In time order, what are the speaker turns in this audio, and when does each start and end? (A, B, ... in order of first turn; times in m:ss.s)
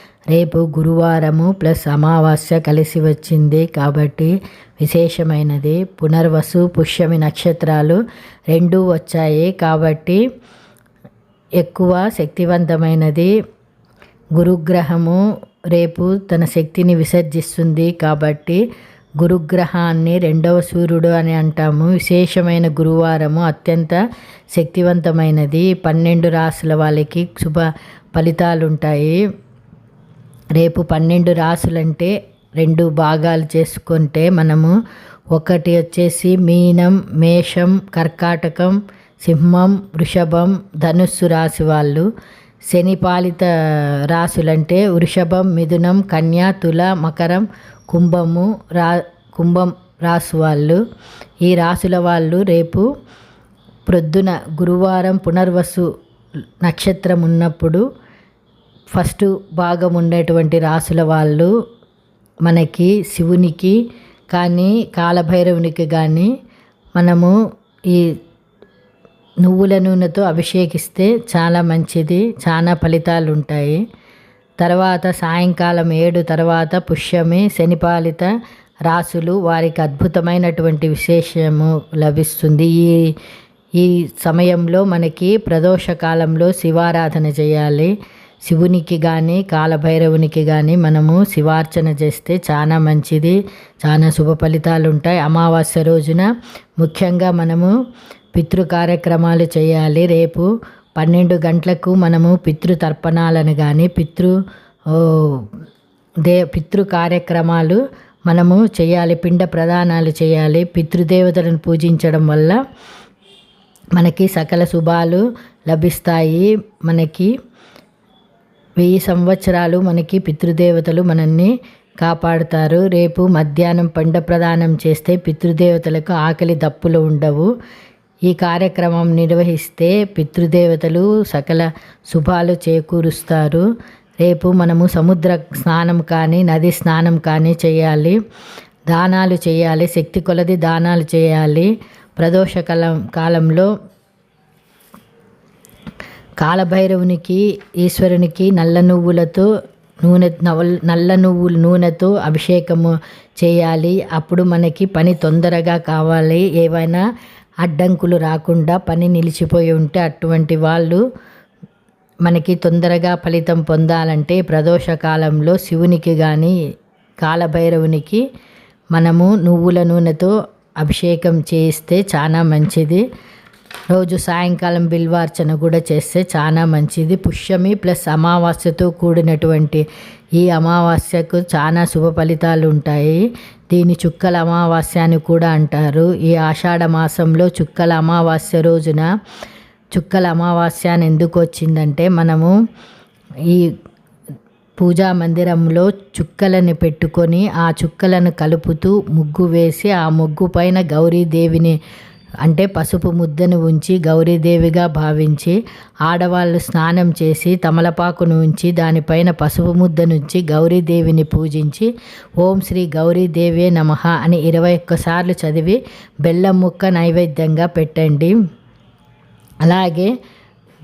0:00.3-0:08.0 A
0:08.5-0:10.2 A
0:11.6-0:13.3 A
0:14.4-0:15.2 A
0:15.7-0:18.6 A
0:19.2-0:24.0 A
0:24.5-0:29.2 A
0:30.6-0:34.7 A
0:35.3-0:42.1 A
0:42.7-0:50.8 A
0:51.4-0:52.8 A
0:53.9-0:55.9 A
0:56.6-0:57.8 A
0:58.9-1:01.5 A
1:02.4-1:03.8 A
1:04.3-1:06.3 A
1:07.0-1:07.3 A
1:07.9-1:08.1 A
1:09.4-1:13.8 A
1:14.6-1:18.3 A
1:18.9-1:23.1 A
1:23.8-1:27.9 A
1:28.4-1:36.3 A
1:36.8-1:37.7 A
1:38.3-1:40.5 A
1:41.0-1:44.3 A
1:44.9-1:45.4 A
1:46.2-1:52.6 A
1:54.0-1:57.3 A
1:58.8-2:07.5 A
2:08.3-2:13.6 A
2:14.2-2:18.2 A
2:18.9-2:23.7 A
2:26.4-2:29.5 A
2:30.0-2:37.0 A
2:37.6-2:41.0 A
2:42.2-2:46.5 A
2:47.2-2:48.2 A
2:48.9-2:53.0 A
2:53.9-2:59.8 A
3:00.4-3:09.1 A
3:09.9-3:12.5 A
3:14.8-3:21.8 A
3:22.4-3:38.3 A
3:39.6-3:40.1 A